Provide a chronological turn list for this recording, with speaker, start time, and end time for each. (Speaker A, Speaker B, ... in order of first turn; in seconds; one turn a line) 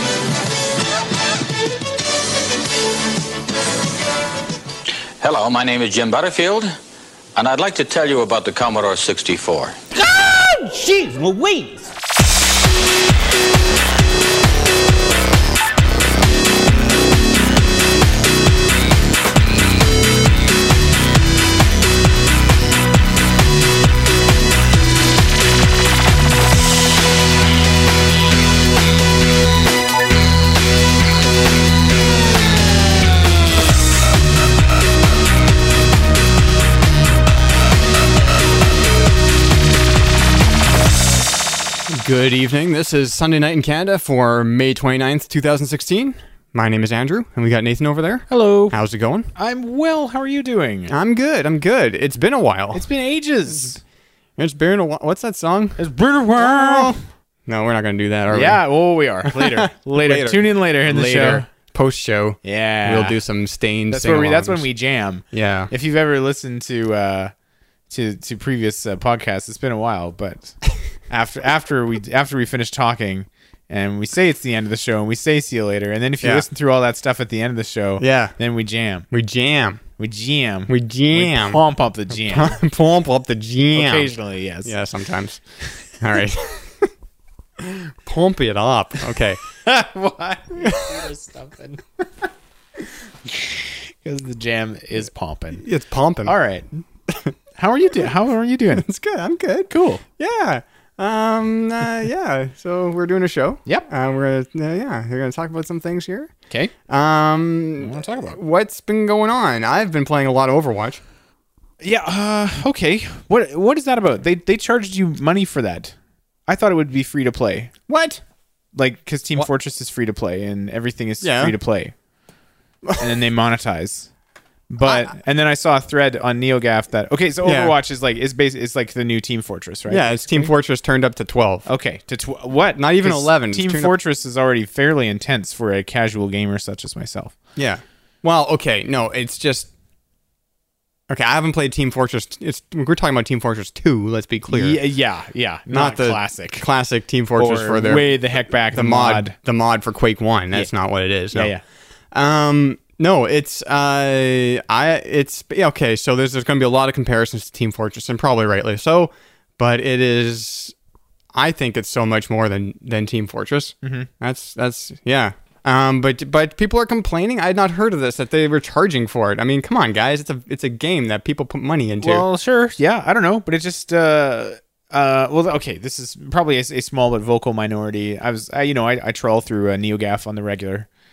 Speaker A: 5.2-6.8
Speaker A: 7.3-9.8
Speaker B: 9.9-11.9
Speaker C: 41.9-49.3
Speaker D: 48.3-48.8
Speaker D: 49.3-50.9
Speaker C: 50.9-52.9
Speaker D: 52.7-53.8
Speaker C: 54.4-55.8
Speaker D: 55.8-56.9
Speaker C: 56.4-58.6
Speaker D: 58.3-61.5
Speaker C: 59.2-64.7
Speaker D: 62.4-63.2
Speaker D: 63.9-67.3
Speaker C: 65.3-65.7
Speaker D: 67.9-79.1
Speaker C: 78.0-78.3
Speaker C: 79.1-79.8
Speaker D: 80.0-82.6
Speaker C: 80.7-85.4
Speaker D: 83.7-84.7
Speaker C: 85.9-86.9
Speaker C: 87.6-89.4
Speaker D: 89.6-92.0
Speaker C: 90.6-91.0
Speaker D: 93.2-95.6
Speaker C: 95.5-96.3
Speaker D: 96.2-96.7
Speaker C: 97.1-97.3
Speaker D: 97.5-98.9
Speaker C: 98.8-106.3
Speaker D: 99.7-100.0
Speaker C: 106.9-111.0
Speaker D: 107.8-108.4
Speaker D: 111.8-115.9
Speaker D: 116.5-117.7
Speaker C: 117.9-118.2
Speaker D: 118.7-121.9
Speaker C: 121.2-121.5
Speaker D: 123.0-124.1
Speaker D: 124.7-130.5
Speaker C: 124.8-125.1
Speaker C: 127.4-127.8
Speaker C: 129.9-131.7
Speaker D: 131.7-137.3
Speaker C: 132.7-133.9
Speaker C: 137.6-139.7
Speaker C: 141.1-144.8
Speaker D: 144.5-146.7
Speaker C: 145.7-151.5
Speaker D: 147.3-149.3
Speaker D: 151.3-151.6
Speaker C: 152.1-160.7
Speaker C: 161.3-172.2
Speaker D: 163.8-164.1
Speaker D: 172.0-180.9